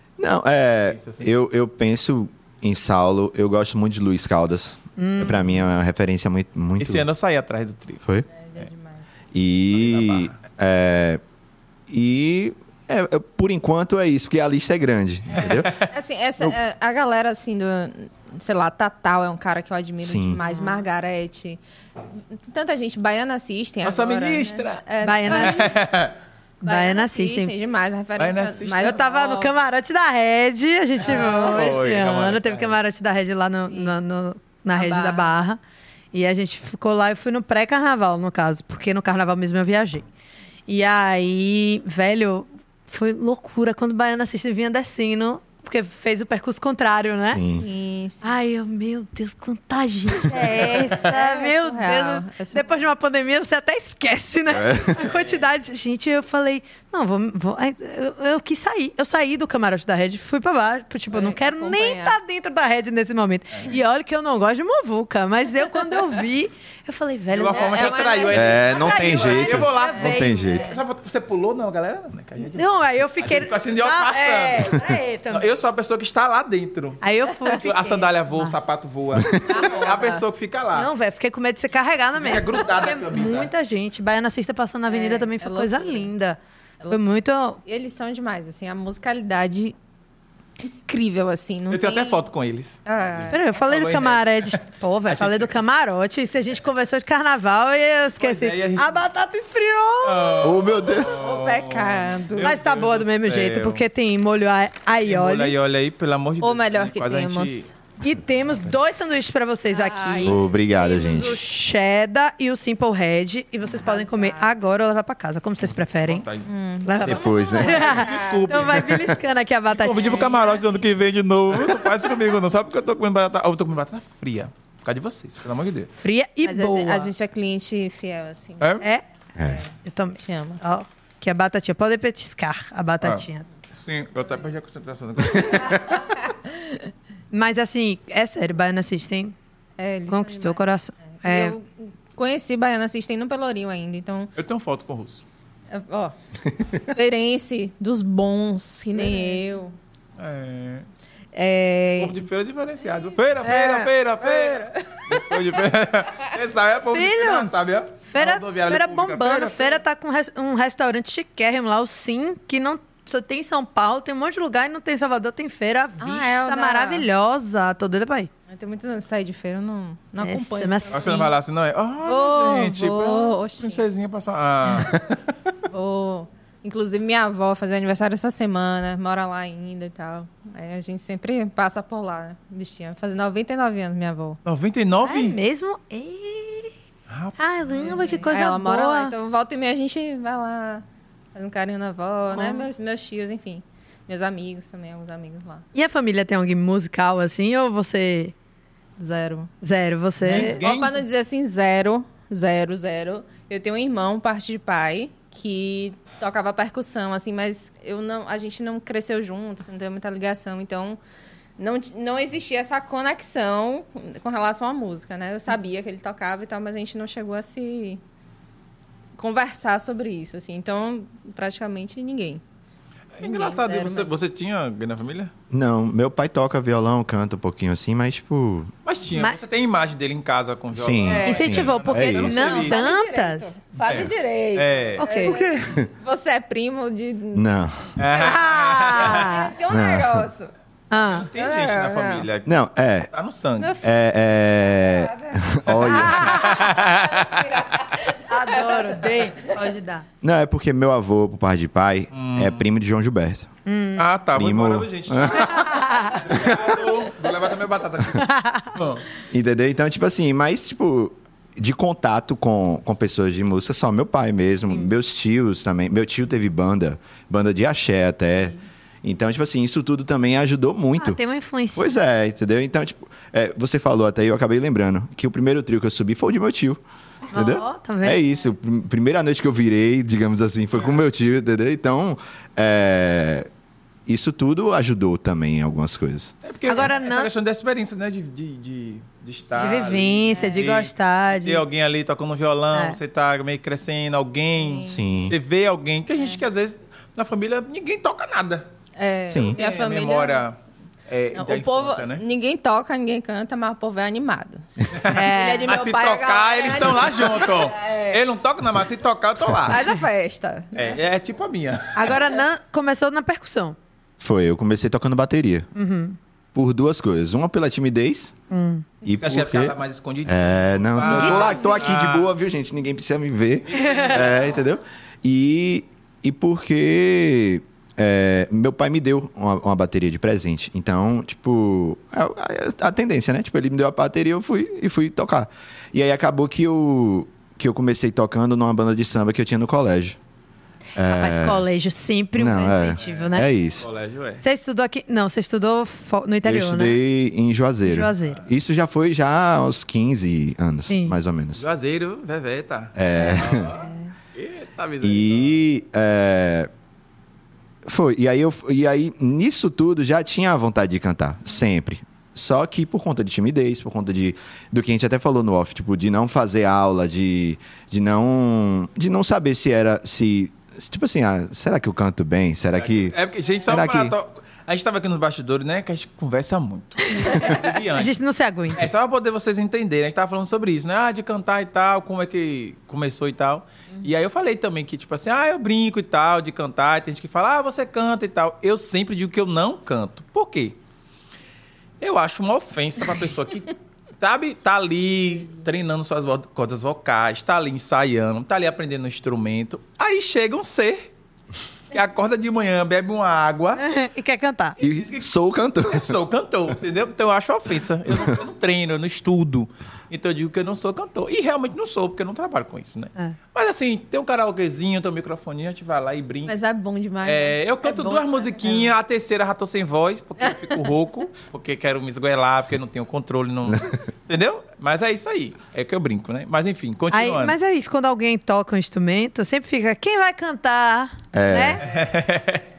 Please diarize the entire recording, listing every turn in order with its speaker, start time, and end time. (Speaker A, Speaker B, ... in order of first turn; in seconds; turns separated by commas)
Speaker A: 0.2-7.1, Speaker B: 0.9-1.3, Speaker C: 5.0-5.5, Speaker B: 6.8-8.0, Speaker D: 8.3-9.1, Speaker A: 9.3-11.2, Speaker B: 9.7-10.3, Speaker A: 11.9-15.7, Speaker D: 15.3-21.6, Speaker B: 15.4-15.9, Speaker A: 20.0-20.4, Speaker C: 20.4-20.8, Speaker D: 22.3-25.8, Speaker B: 23.8-26.1, Speaker C: 25.0-25.7, Speaker C: 26.6-27.5, Speaker D: 26.6-29.5, Speaker B: 28.2-29.1, Speaker C: 28.8-35.6, Speaker D: 31.0-31.7, Speaker B: 31.4-32.8, Speaker D: 33.7-34.0, Speaker D: 34.7-35.4, Speaker C: 36.1-40.1, Speaker C: 40.7-47.4, Speaker A: 47.3-47.7, Speaker D: 47.5-48.3, Speaker C: 48.2-70.6, Speaker D: 50.6-52.8, Speaker A: 54.5-55.0, Speaker B: 55.0-55.5, Speaker D: 61.1-62.2, Speaker B: 67.3-77.0, Speaker D: 67.5-70.8, Speaker A: 68.3-70.8, Speaker C: 72.5-75.5, Speaker C: 77.0-78.6, Speaker B: 77.6-80.9, Speaker A: 79.2-79.5, Speaker D: 79.5-80.2, Speaker C: 80.7-86.4, Speaker B: 82.2-83.5, Speaker D: 84.9-86.1, Speaker C: 86.9-87.6, Speaker D: 87.7-89.8, Speaker D: 90.8-92.2, Speaker B: 91.7-95.5, Speaker D: 92.9-93.4, Speaker C: 93.3-100.5, Speaker B: 98.2-99.0, Speaker B: 100.0-103.8, Speaker A: 100.4-101.2, Speaker D: 101.1-102.5, Speaker C: 102.4-105.6, Speaker B: 105.0-107.7, Speaker D: 106.4-107.7, Speaker C: 108.0-116.3, Speaker D: 109.7-111.2, Speaker A: 110.2-111.4, Speaker D: 113.7-114.5, Speaker B: 116.0-116.5, Speaker D: 116.5-118.8, Speaker C: 116.8-120.3, Speaker A: 117.0-117.8, Speaker B: 117.6-119.1, Speaker B: 119.7-125.9, Speaker D: 119.9-120.9, Speaker C: 126.0-127.1, Speaker D: 126.4-128.8, Speaker B: 128.6-128.8, Speaker A: 129.4-129.6, Speaker D: 129.4-130.6, Speaker C: 129.8-133.4, Speaker B: 133.8-136.0, Speaker D: 135.7-136.8, Speaker C: 137.3-139.3, Speaker D: 139.8-144.3, Speaker C: 140.1-141.6, Speaker B: 144.4-145.3, Speaker D: 145.7-149.8, Speaker C: 148.9-149.6, Speaker B: 150.2-150.9, Speaker D: 151.3-152.2, Speaker B: 152.0-159.8, Speaker C: 153.4-153.9, Speaker D: 154.2-155.6, Speaker C: 156.9-157.5, Speaker C: 158.1-168.3, Speaker D: 166.0-167.1, Speaker D: 168.5-171.3, Speaker C: 170.2-171.1, Speaker B: 170.9-175.2, Speaker D: 172.0-173.8, Speaker D: 175.7-184.4, Speaker B: 184.4-185.4, Speaker C: 185.0-186.7, Speaker B: 187.1-188.0, Speaker C: 187.4-189.2, Speaker D: 187.8-195.7, Speaker C: 192.3-192.7, Speaker C: 195.7-198.3, Speaker D: 199.0-199.5, Speaker C: 199.6-200.6, Speaker B: 200.2-201.0, Speaker D: 200.3-211.0, Speaker D: 211.6-218.0, Speaker D: 219.2-222.4, Speaker B: 223.2-225.3, Speaker D: 223.2-224.1, Speaker A: 225.5-228.7, Speaker B: 228.8-232.9, Speaker A: 230.7-232.5, Speaker D: 231.0-231.6, Speaker C: 231.2-233.5, Speaker D: 232.2-237.4, Speaker B: 233.8-235.2, Speaker C: 235.0-235.4, Speaker A: 235.3-235.9, Speaker A: 237.3-237.9, Speaker B: 238.0-239.4, Speaker D: 238.0-240.5, Speaker C: 238.2-239.5, Speaker A: 239.7-240.3, Speaker C: 240.9-241.3, Speaker B: 240.9-243.8, Speaker D: 241.3-242.3, Speaker A: 242.5-243.1, Speaker D: 243.6-249.6, Speaker A: 243.8-246.5, Speaker B: 245.7-247.4, Speaker C: 245.9-246.6, Speaker C: 248.3-250.1, Speaker A: 250.2-253.5, Speaker B: 252.1-252.7, Speaker C: 253.7-254.1, Speaker B: 254.0-259.1, Speaker A: 254.3-255.6, Speaker C: 255.6-256.2, Speaker A: 256.3-256.8, Speaker C: 258.2-258.8, Speaker A: 259.3-271.2, Speaker C: 271.0-271.9, Speaker A: 271.8-276.8, Speaker C: 277.3-278.2, Speaker A: 277.3-283.5, Speaker A: 284.1-286.3, Speaker B: 286.4-298.7, Speaker C: 286.7-287.3, Speaker D: 289.5-290.7, Speaker C: 289.5-291.6, Speaker C: 292.7-293.0, Speaker D: 294.6-295.3, Speaker A: 294.8-295.4, Speaker D: 296.2-296.4, Speaker D: 299.0-300.4, Speaker A: 299.3-299.6, Speaker B: 299.4-300.6, Speaker B: 301.1-302.2, Speaker D: 301.4-308.2, Speaker B: 304.9-309.9, Speaker C: 305.1-305.7, Speaker D: 309.7-311.0, Speaker B: 310.8-312.2, Speaker C: 311.9-313.8, Speaker A: 314.2-315.7, Speaker C: 315.8-316.2, Speaker A: 316.5-318.4, Speaker C: 318.5-318.9, Speaker A: 319.0-340.2, Speaker B: 319.2-322.3, Speaker C: 321.0-321.9, Speaker B: 323.7-324.6, Speaker C: 323.8-324.1, Speaker A: 341.0-341.6, Speaker C: 341.1-343.5, Speaker A: 342.4-343.9, Speaker B: 343.0-344.4, Speaker C: 344.4-347.0, Speaker A: 346.4-351.6, Speaker C: 347.9-348.4, Speaker C: 350.9-351.2, Speaker B: 351.6-355.6, Speaker A: 353.0-353.8, Speaker C: 353.1-354.1, Speaker A: 355.0-356.7, Speaker A: 357.9-373.1, Speaker B: 372.8-378.2, Speaker A: 373.7-374.1, Speaker C: 377.1-378.9, Speaker B: 378.8-390.8, Speaker B: 392.0-401.1, Speaker B: 401.9-403.8, Speaker C: 403.8-404.8, Speaker B: 404.8-405.3, Speaker A: 404.8-406.2, Speaker B: 405.9-416.6, Speaker D: 416.5-418.9, Speaker B: 417.2-427.6, Speaker D: 420.4-420.8, Speaker C: 427.1-431.8, Speaker A: 431.3-431.9, Speaker B: 431.8-432.6